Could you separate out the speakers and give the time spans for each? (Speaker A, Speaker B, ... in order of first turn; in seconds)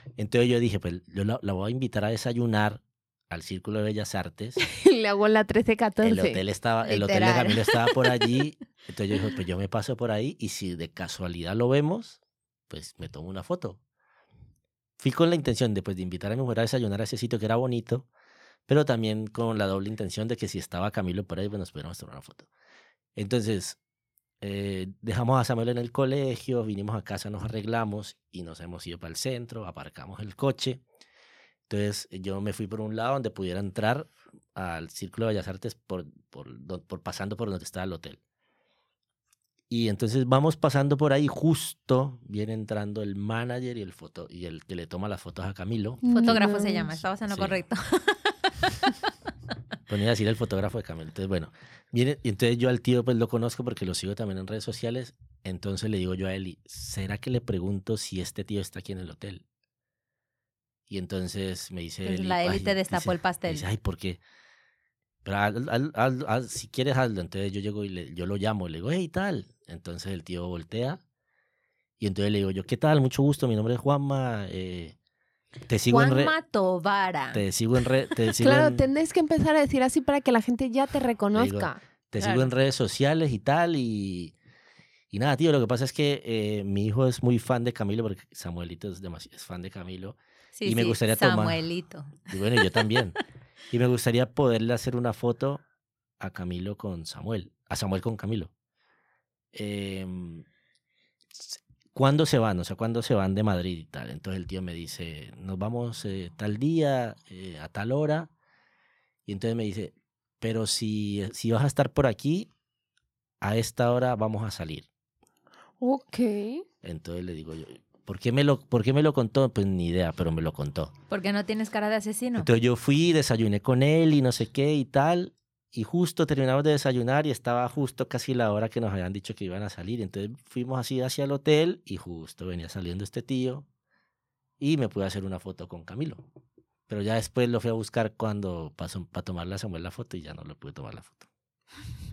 Speaker A: 0.2-4.6, 6.0-12.2, 12.7-13.8, 15.0-18.1, 18.7-22.5, 23.1-23.8, 24.4-30.8, 31.7-38.2, 39.7-46.4, 47.3-47.6, 49.9-59.4, 60.9-64.2, 65.2-71.0, 72.0-74.9, 75.7-76.3, 77.3-78.8, 81.3-84.3, 85.1-91.6, 92.3-93.2, 93.7-95.6, 96.2-98.5, 99.5-100.4, 101.3-108.3, 109.3-112.5, 113.4-114.9, 116.8-120.9, 122.4-133.7, 134.6-136.2, 136.9-141.3
Speaker B: 4.6-6.4, 46.0-46.9, 78.4-81.8, 115.8-116.6
Speaker C: 6.8-8.0, 46.1-48.9, 62.0-63.7, 75.9-77.4, 82.2-82.5, 90.5-92.7, 121.1-122.5